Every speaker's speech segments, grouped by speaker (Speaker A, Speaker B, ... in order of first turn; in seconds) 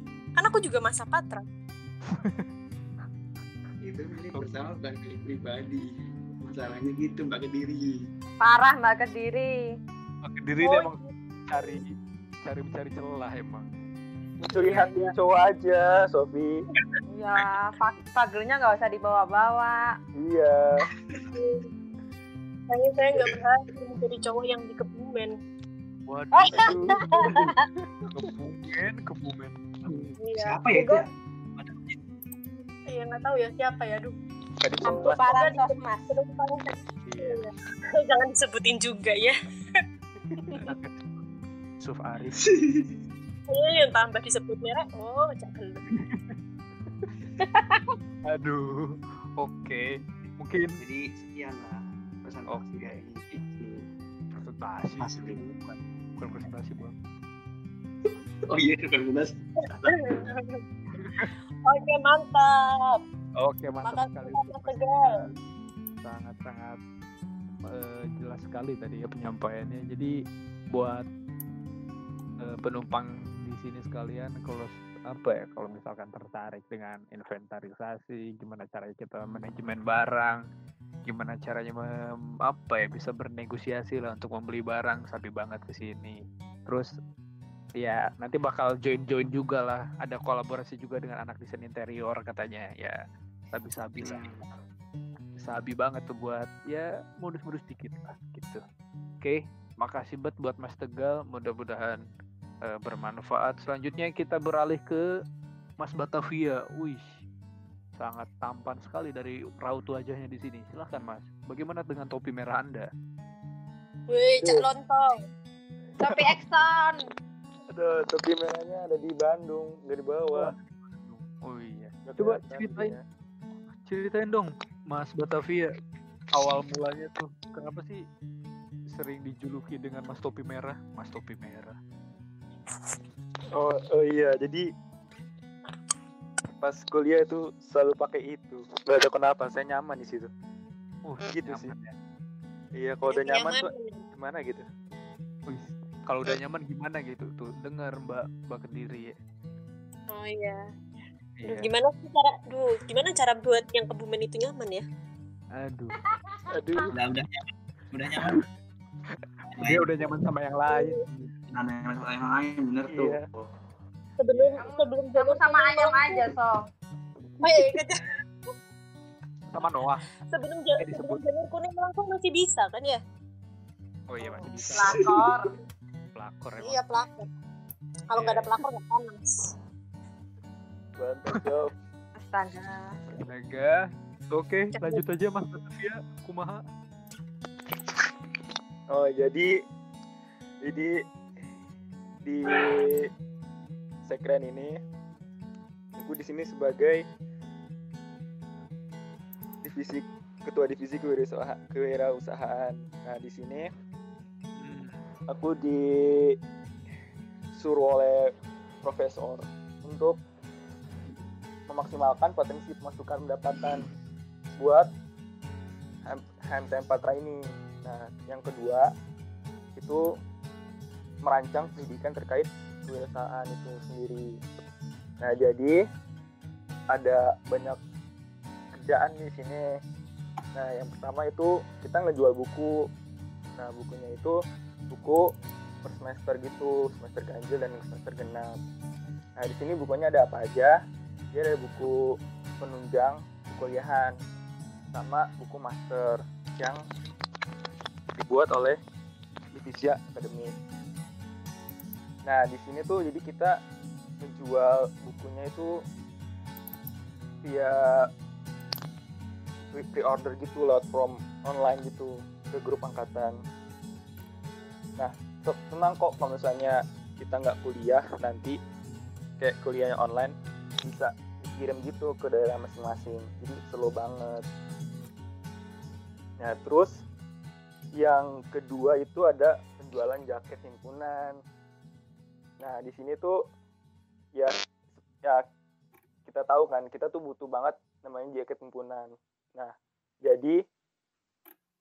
Speaker A: 0.3-1.4, 10.6-11.1, 21.3-21.7, 22.7-25.4, 30.2-31.0, 32.9-34.1, 35.1-39.8, 43.5-45.9, 59.9-60.6, 61.6-63.0, 63.8-65.1, 114.1-115.2, 143.1-144.0, 150.1-150.7, 151.5-154.8, 160.7-161.0, 164.2-166.3, 167.4-168.1, 170.3-173.0, 176.6-177.3, 178.1-179.5, 184.8-185.0
Speaker B: 2.1-2.5, 10.2-11.9, 12.4-13.7, 26.1-27.6, 28.1-29.6, 34.6-35.1, 37.0-37.4, 40.5-41.0, 41.8-42.5, 45.9-46.4, 48.2-49.9, 50.4-50.8, 52.5-53.0, 54.4-57.0, 61.0-61.3, 63.4-65.3, 66.0-66.8, 67.6-70.1, 70.7-71.0, 72.4-80.4, 81.1-81.8, 82.5-86.9, 87.8-93.0, 93.5-94.3, 95.4-98.6, 99.2-102.0, 102.7-105.0, 105.8-107.2, 108.0-112.9, 120.3-123.0, 123.8-125.7, 126.3-128.0, 128.9-131.8, 141.0-141.9, 145.5-149.1, 151.4-151.7, 155.5-156.0, 159.2-161.3, 164.3-164.6, 169.5-170.1, 170.8-171.2, 174.1-175.1, 176.1-176.8, 178.1-178.5, 183.1-183.8, 184.3-186.6, 204.6-205.1
Speaker C: 3.8-8.1, 29.9-31.1, 42.4-42.9, 50.8-53.9, 55.0-55.4, 58.5-60.3, 94.0-94.4, 161.5-163.5
Speaker D: 8.4-9.5, 14.5-15.1, 17.1-19.9, 26.3-27.7, 34.8-36.0, 47.4-47.9, 116.0-117.0, 164.6-166.6, 174.2-175.5, 182.2-182.9
Speaker E: 14.4-16.6, 20.2-20.6, 114.4-114.6, 116.1-116.3, 117.7-120.5, 122.0-123.0, 133.5-134.7, 136.6-140.3, 141.3-141.7, 142.8-144.7, 156.5-156.9, 162.9-163.2, 181.0-181.7, 188.9-189.5, 190.6-191.0, 192.2-193.0, 194.1-194.8, 196.0-197.0, 199.6-203.7, 205.3-205.8, 207.6-208.3, 208.8-210.2, 211.7-213.8, 214.6-214.9, 216.1-218.9, 219.8-220.0, 221.2-224.4, 225.2-225.8, 226.9-227.8, 228.8-229.7, 230.5-232.8, 233.6-234.4, 234.9-235.3, 235.8-238.5, 239.4-240.7, 241.3-244.2, 244.9-246.8, 248.2-248.8, 249.5-250.6, 252.2-253.6, 254.2-255.7, 257.4-258.0, 259.7-263.4, 265.0-268.6, 269.4-274.4, 276.4-276.9, 278.0-281.4, 282.6-283.4, 286.3-290.6
Speaker F: 31.6-32.0, 156.9-158.4, 159.6-160.0